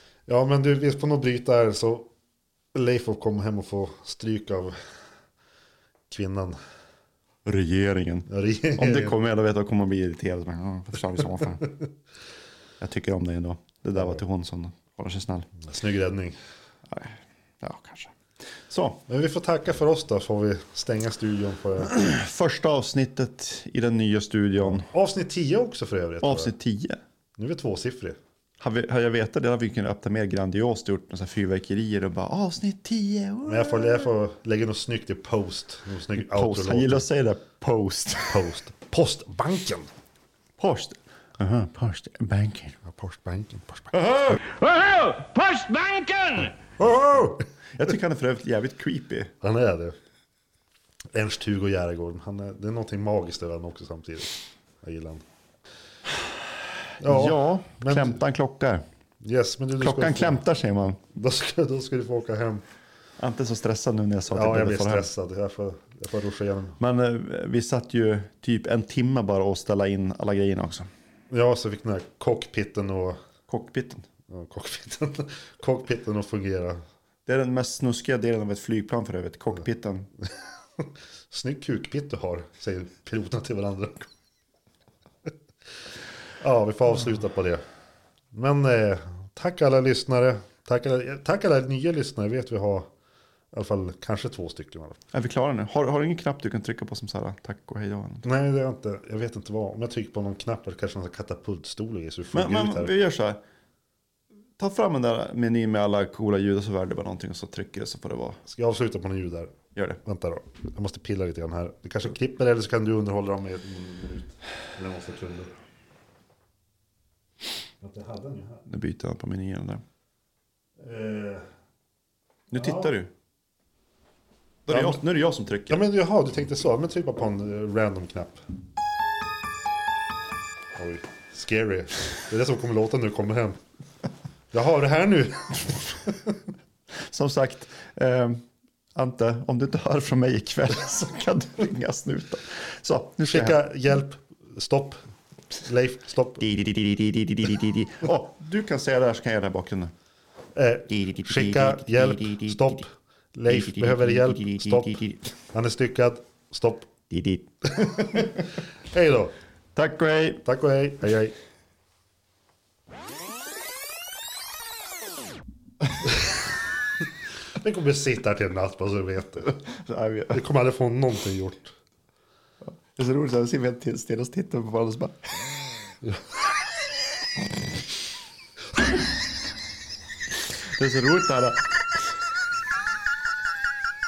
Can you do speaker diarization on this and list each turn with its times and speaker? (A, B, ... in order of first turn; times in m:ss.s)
0:00.3-0:02.1 A
0:02.7-0:04.8 A
0:06.1-0:06.6 A
0:07.4-0:11.8 B
0:08.3-0:09.2 A
0:12.8-0:15.5 B
0:14.0-0:14.2 A
0:15.6-0:16.4 A
0:16.9-0:19.0 B
0:19.1-0:21.9 A
0:21.8-0:24.9 B
0:24.6-0:26.5 A
0:26.2-0:27.0 B
0:27.4-0:28.2 A
0:28.6-0:34.1 B
0:33.4-0:37.1 A
0:36.2-0:38.5 B
0:38.3-0:39.9 A
0:40.6-0:42.8 B
0:42.8-0:44.4 A
0:43.9-0:46.5 B
0:46.8-0:47.4 A
0:47.8-0:49.3 B
0:49.4-0:50.0 A
0:51.1-0:55.2 A
0:57.0-0:58.2 A
0:57.0-0:58.8 B
0:59.2-1:00.4 A
0:59.8-1:01.0 B
1:01.2-1:02.6 A
1:03.2-1:05.1 B
1:04.3-1:06.8 A
1:06.8-1:10.9 B
1:11.3-1:13.2 A
1:13.5-1:14.1 B
1:14.3-1:16.8 A
1:17.3-1:20.1 B
1:20.8-1:24.1 A
1:26.4-1:27.6 A
1:28.3-1:32.9 A
1:33.5-1:35.0 A
1:35.1-1:38.3 B
1:38.2-1:42.9 A
1:42.3-1:43.4 B
1:44.6-1:48.4 B
1:48.4-1:55.5 A
1:49.8-1:50.0 B
1:57.8-1:58.6 A
1:58.7-1:59.8 B
2:00.8-2:01.5 A
2:02.5-2:03.1 B
2:02.5-2:02.9 A
2:04.7-2:05.9 B
2:04.7-2:05.0 A
2:05.7-2:08.4 A
2:10.8-2:13.6 A
2:14.5-2:16.4 A
2:16.9-2:18.4 B
2:19.0-2:23.6 B
2:23.2-2:25.0 A
2:25.6-2:26.4 A
2:26.4-2:29.9 B
2:30.6-2:36.9 A
2:30.9-2:32.8 B
2:33.5-2:35.3 B
2:37.1-2:38.3 B
2:37.8-2:38.4 A
2:38.9-2:39.3 A
2:39.8-2:40.4 B
2:40.4-2:41.4 A
2:47.6-2:49.6 A
2:49.5-2:50.4 B
2:50.3-2:51.8 A
2:52.6-2:55.4 B
3:00.6-3:01.7 B